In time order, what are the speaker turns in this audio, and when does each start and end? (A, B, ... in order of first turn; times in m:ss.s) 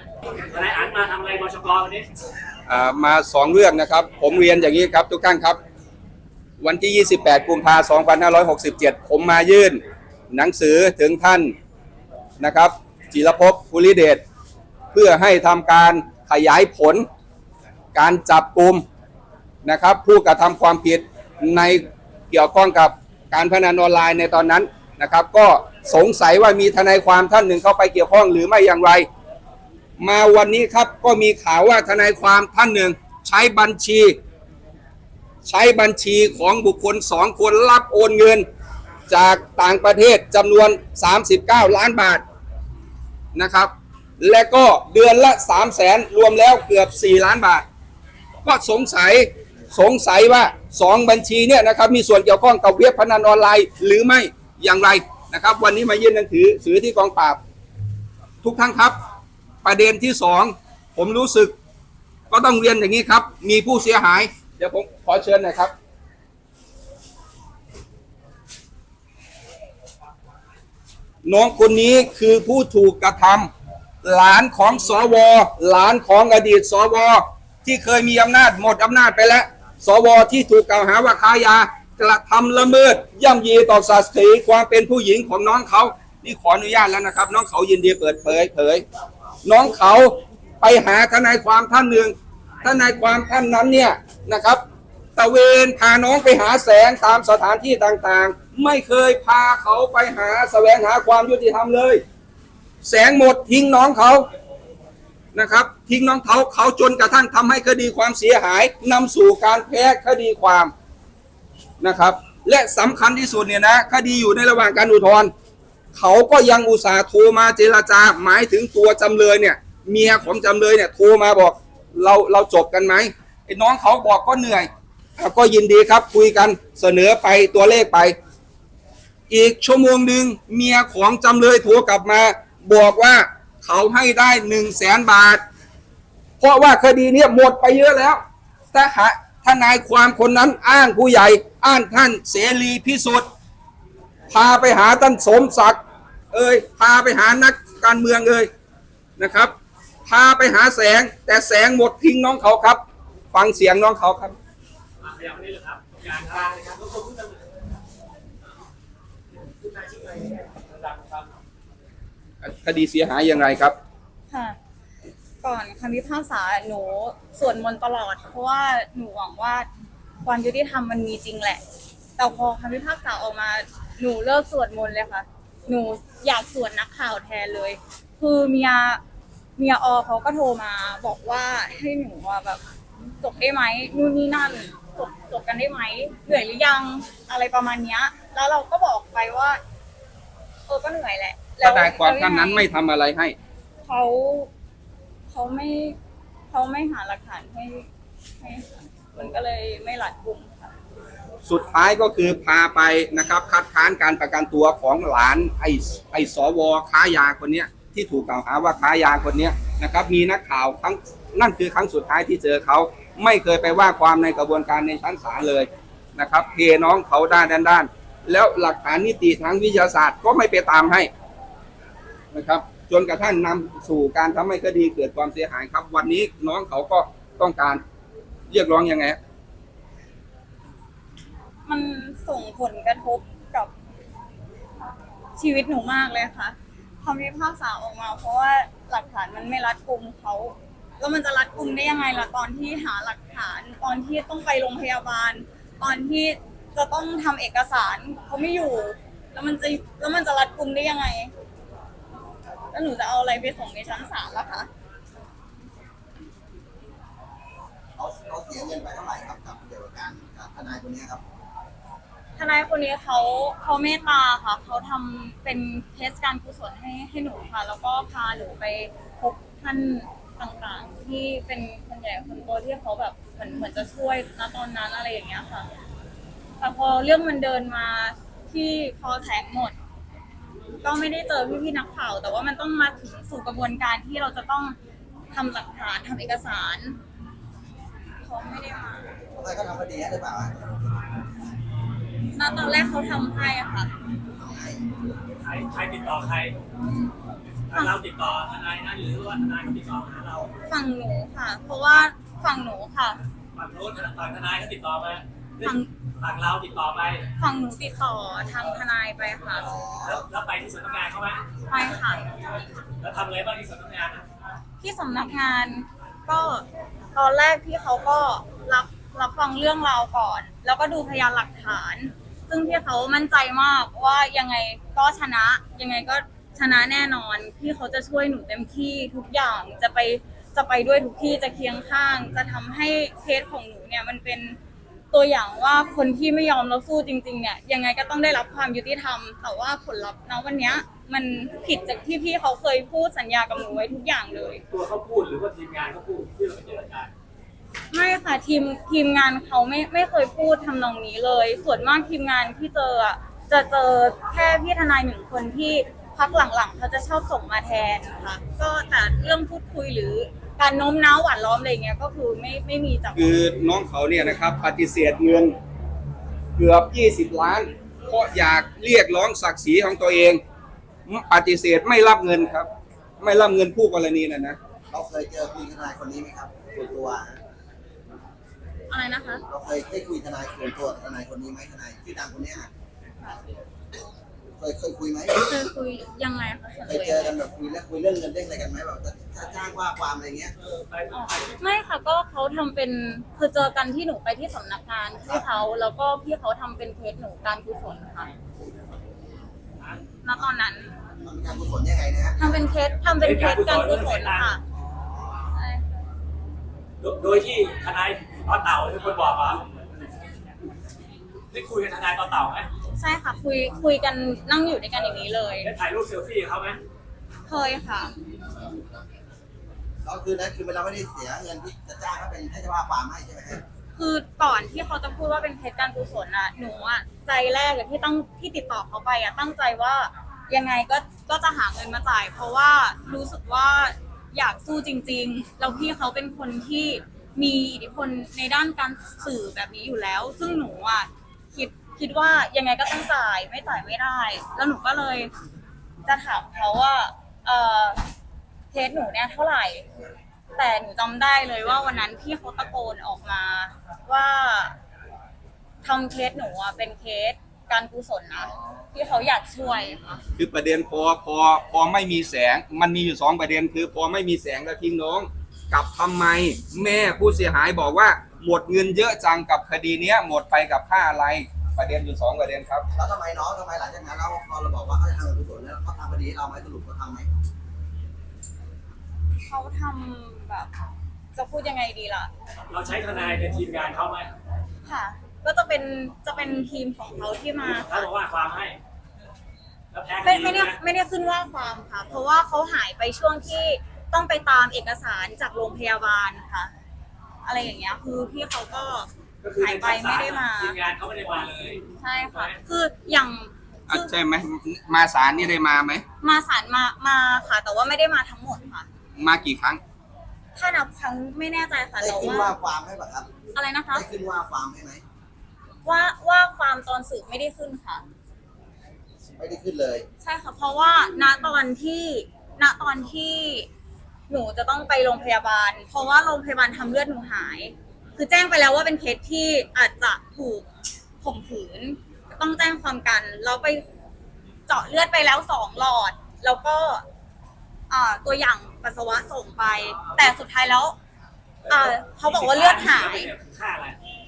0:00.3-0:02.1 A
0:02.7-0:05.6 B
0:06.6-0:11.5 B
0:12.4-0:14.2 B
0:14.9-0:17.0 B
0:17.9-0:18.8 B
0:19.6-0:29.1 B
0:30.0-0:34.2 B
0:35.4-0:38.4 B
0:39.1-0:42.2 B
0:43.3-0:47.6 B
0:48.4-0:57.4 B
0:58.4-0:59.0 B
0:59.6-1:01.5 B
1:02.3-1:05.7 B
1:11.2-1:13.5 B
1:14.0-1:28.8 B
1:29.4-1:34.6 B
1:35.2-1:42.0 B
1:42.8-1:44.3 B
1:45.3-1:50.7 B
1:51.8-1:55.3 B
1:55.9-2:08.1 B
2:09.3-2:15.4 B
2:16.4-2:18.2 B
2:18.7-2:23.3 B
2:24.3-2:25.8 B
2:26.3-2:28.5 B
2:29.2-2:29.5 B
2:30.1-2:32.8 B
2:33.3-2:34.3 B
2:35.0-2:37.4 A
2:39.6-2:41.3 A
2:42.4-2:43.7 B
2:44.3-2:44.6 C
2:45.4-2:49.7 C
2:50.2-2:51.6 C
2:52.2-2:59.0 C
2:59.6-3:02.6 C
3:03.2-3:09.6 C
3:10.7-3:12.6 C
3:11.6-3:13.4 B
3:13.8-3:14.5 C
3:15.3-3:16.0 C
3:16.5-3:17.8 C
3:18.4-3:20.7 C
3:21.4-3:41.1 B
3:42.3-3:47.8 B
3:48.5-3:49.2 B
3:51.6-3:53.7 C
3:55.4-4:11.3 C
4:12.7-4:14.7 C
4:18.0-4:21.2 D
4:22.4-4:35.7 C
4:36.6-4:39.7 C
4:40.8-4:44.8 C
4:45.3-4:47.0 C
4:48.2-4:49.1 C
4:49.3-4:50.9 D
4:52.3-4:53.9 C
4:54.4-4:54.8 D
4:55.4-4:56.5 A
4:57.7-5:00.5 A
4:57.7-4:58.0 C
5:00.7-5:03.2 C
5:03.5-5:07.2 A
5:05.6-5:05.9 C
5:07.4-5:09.6 C
5:09.6-5:10.2 D
5:10.0-5:11.4 A
5:11.7-5:12.3 C
5:13.0-5:14.2 A
5:14.8-5:34.6 C
5:35.1-5:44.6 C
5:44.7-5:47.1 A
5:47.9-6:03.4 C
6:03.2-6:05.6 B
6:06.6-6:10.4 B
6:11.1-6:12.7 B
6:13.2-6:14.6 B
6:14.9-6:17.4 D
6:18.9-6:19.4 C
6:19.5-6:22.7 D
6:24.6-6:25.5 D
6:25.4-6:27.4 C
6:26.8-6:30.5 D
6:30.6-6:31.6 A
6:31.1-6:38.3 C
6:40.2-6:40.9 C
6:41.1-6:42.5 D
6:42.4-6:44.6 C
6:43.2-6:44.5 A
6:44.9-6:45.4 D
6:45.5-6:45.9 C
6:47.0-6:49.6 A
6:51.5-6:52.7 A
6:52.9-6:55.7 C
6:55.6-6:56.8 A
6:57.5-6:58.1 C
7:00.0-7:03.6 D
7:04.0-7:25.3 C
7:26.0-7:28.0 C
7:28.7-7:29.8 C
7:30.5-7:34.7 C
7:35.8-7:40.2 C
7:40.4-7:52.8 B
7:52.9-7:57.3 D
7:59.4-8:00.7 C
8:01.3-8:02.3 C
8:02.7-8:04.3 A
8:04.8-8:08.1 C
8:07.7-8:08.8 A
8:09.9-8:10.8 A
8:10.2-8:16.7 C
8:17.4-8:20.8 C
8:19.4-8:21.8 A
8:22.0-8:24.1 C
8:23.9-8:26.0 B
8:26.2-8:28.9 C
8:29.2-8:29.8 B
8:30.5-8:32.5 C
8:32.0-8:33.3 D
8:33.5-8:34.0 C
8:33.9-8:35.0 D
8:35.8-8:38.0 C
8:39.4-8:40.0 D
8:40.2-8:43.7 C
8:44.3-8:50.7 C
8:51.2-8:53.8 C
8:54.7-8:57.0 C
8:57.9-9:01.0 C
9:01.6-9:04.0 A
9:01.7-9:03.3 C